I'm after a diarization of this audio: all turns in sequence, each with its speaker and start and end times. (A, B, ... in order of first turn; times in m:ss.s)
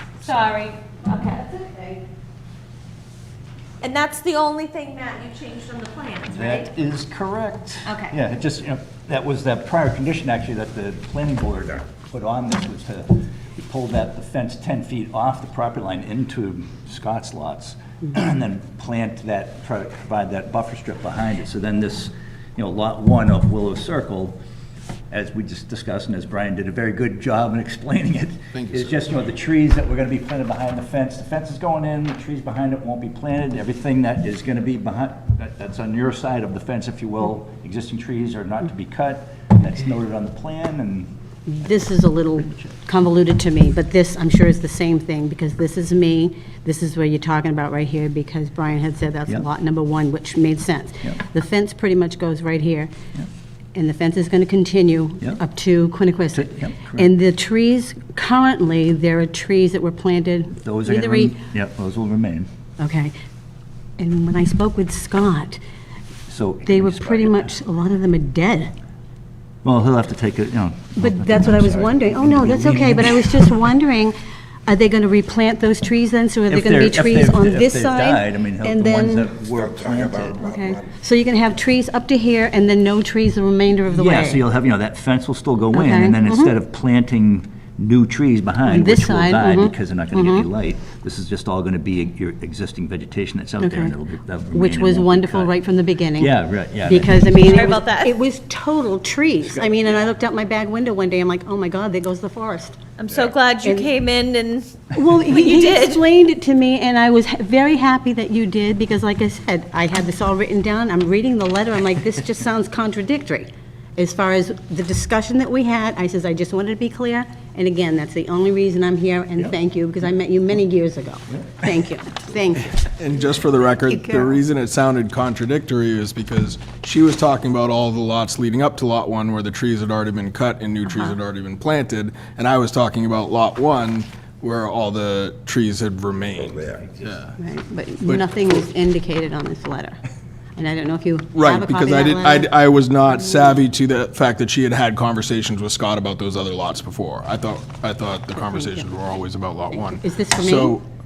0:00.2-0:02.0 A
0:03.8-0:06.7 A
0:06.3-0:24.4 B
0:07.9-0:08.2 A
0:25.1-0:41.1 B
0:28.5-0:29.0 C
0:41.5-0:52.9 D
0:53.8-1:01.4 D
0:56.3-0:57.1 B
1:00.6-1:02.5 B
1:02.8-1:03.1 D
1:04.0-1:05.6 D
1:06.3-1:07.5 B
1:06.7-1:08.7 D
1:09.6-1:13.6 B
1:11.0-1:14.2 D
1:14.7-1:19.3 D
1:16.5-1:20.5 B
1:20.4-1:24.4 D
1:23.9-1:35.5 B
1:25.7-1:26.6 D
1:28.7-1:30.5 D
1:33.6-1:34.0 D
1:34.5-1:42.8 D
1:36.2-1:37.5 B
1:37.4-1:38.2 A
1:39.4-1:40.1 B
1:43.0-1:46.0 A
1:43.6-1:43.9 D
1:44.9-2:02.7 D
2:02.8-2:17.4 C
2:17.4-2:20.0 D
2:18.0-2:18.4 C
2:20.6-2:22.5 D
2:21.4-2:30.8 C
2:29.7-2:30.8 D